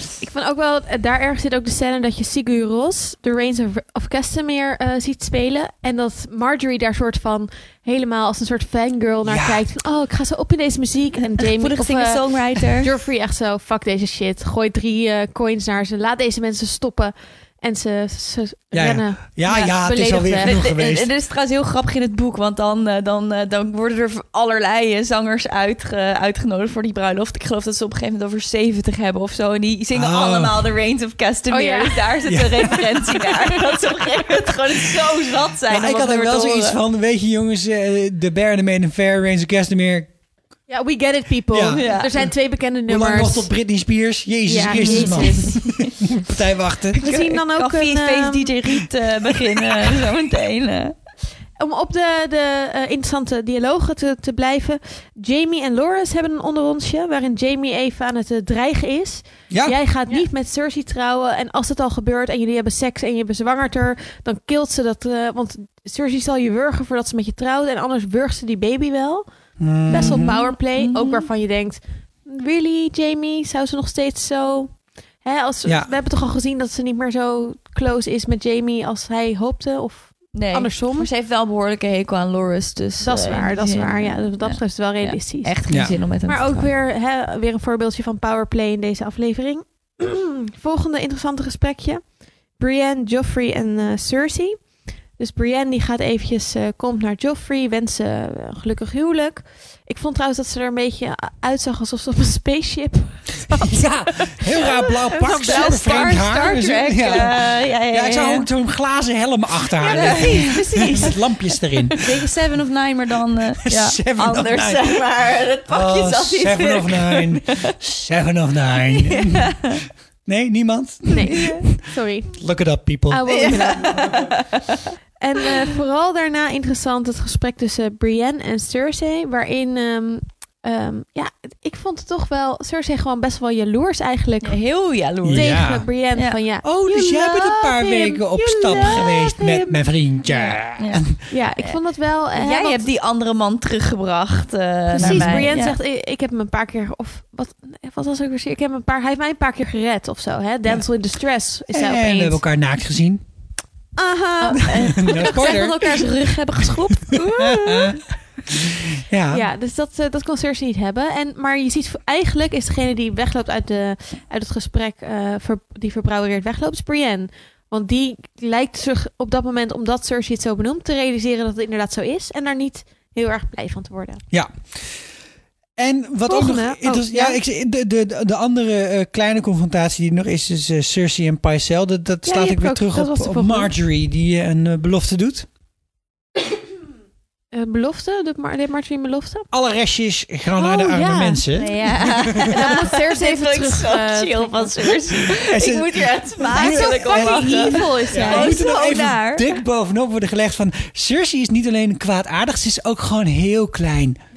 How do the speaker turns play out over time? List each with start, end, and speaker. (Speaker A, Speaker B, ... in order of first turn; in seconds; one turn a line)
Speaker A: 0.2-20.5
Speaker B: 9.3-9.6
Speaker C: 11.4-12.9
Speaker B: 18.7-21.1
Speaker C: 20.4-36.8
Speaker B: 29.9-30.6
Speaker A: 31.5-32.1
Speaker B: 32.3-32.9
Speaker B: 35.7-40.1
Speaker A: 40.7-43.5
Speaker B: 41.5-42.3
Speaker C: 41.7-42.2
Speaker B: 42.9-47.0
Speaker A: 44.5-45.7
Speaker C: 44.7-45.7
Speaker A: 47.0-48.5
Speaker C: 47.0-51.0
Speaker A: 51.6-69.3
Speaker B: 59.5-59.8
Speaker B: 69.6-70.4
Speaker A: 69.9-81.1
Speaker C: 69.9-71.3
Speaker B: 75.7-75.9
Speaker C: 80.3-86.7
Speaker A: 83.0-85.5
Speaker B: 85.7-86.0
Speaker A: 86.3-92.0
Speaker A: 92.6-94.6
Speaker A: 95.2-106.1
Speaker B: 103.5-112.0
Speaker C: 105.2-108.5
Speaker A: 109.8-111.0
Speaker C: 109.9-117.8
Speaker B: 113.7-115.1
Speaker B: 115.7-121.7
Speaker C: 118.9-119.8
Speaker A: 121.1-122.3
Speaker C: 121.3-121.6
Speaker B: 122.3-124.3
Speaker A: 123.1-124.3
Speaker C: 123.3-124.9
Speaker A: 125.2-134.6
Speaker C: 134.4-136.4
Speaker B: 135.2-135.9
Speaker A: 135.3-139.8
Speaker B: 136.6-141.2
Speaker C: 138.7-139.0
Speaker C: 140.8-141.8
Speaker A: 141.3-142.8
Speaker C: 142.3-145.8
Speaker B: 144.9-145.5
Speaker A: 145.0-152.4
Speaker B: 151.7-153.2
Speaker A: 154.0-156.1
Speaker C: 154.4-158.0
Speaker B: 154.6-155.8
Speaker B: 157.1-159.5
Speaker A: 159.3-174.2
Speaker B: 174.3-175.0
Speaker B: 175.8-185.5
Speaker A: 176.3-177.4
Speaker A: 182.2-183.7
Speaker A: 187.5-189.5
Speaker B: 189.5-192.7
Speaker A: 190.6-191.4
Speaker C: 191.6-199.6
Speaker A: 192.4-195.0
Speaker B: 195.3-204.2
Speaker A: 196.5-198.6